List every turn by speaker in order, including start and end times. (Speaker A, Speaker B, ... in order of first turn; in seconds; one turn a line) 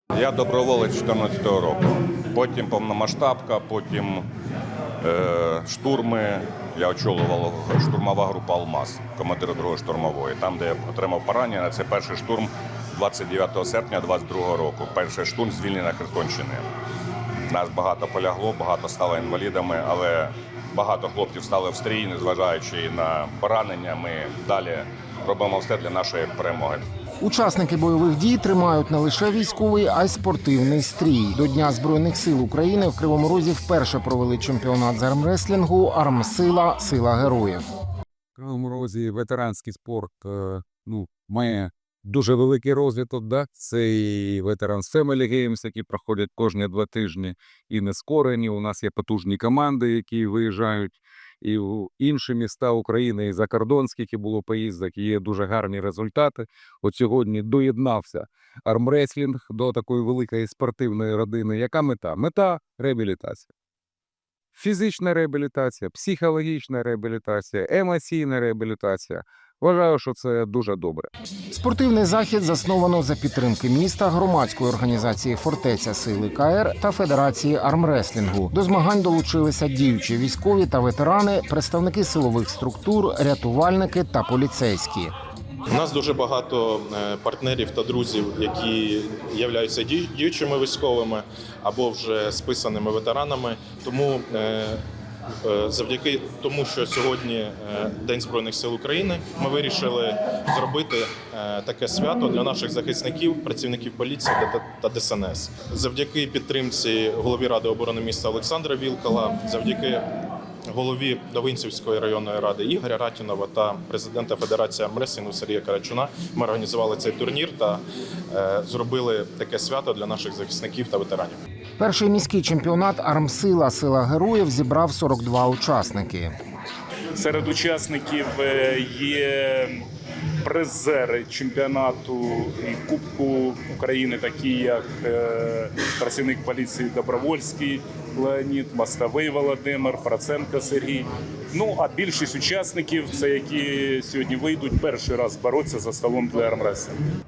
Speaker A: 0.1-4.2
Speaker A: 5.0-16.6
Speaker A: 17.5-26.9
Speaker B: 27.2-37.6
Speaker C: 38.4-63.5
Speaker C: 64.5-71.1
Speaker B: 71.5-85.1
Speaker D: 85.7-94.8
Speaker D: 95.4-110.0
Speaker D: 110.7-121.4
Speaker B: 121.8-126.3
Speaker E: 127.2-129.8
Speaker E: 130.4-146.9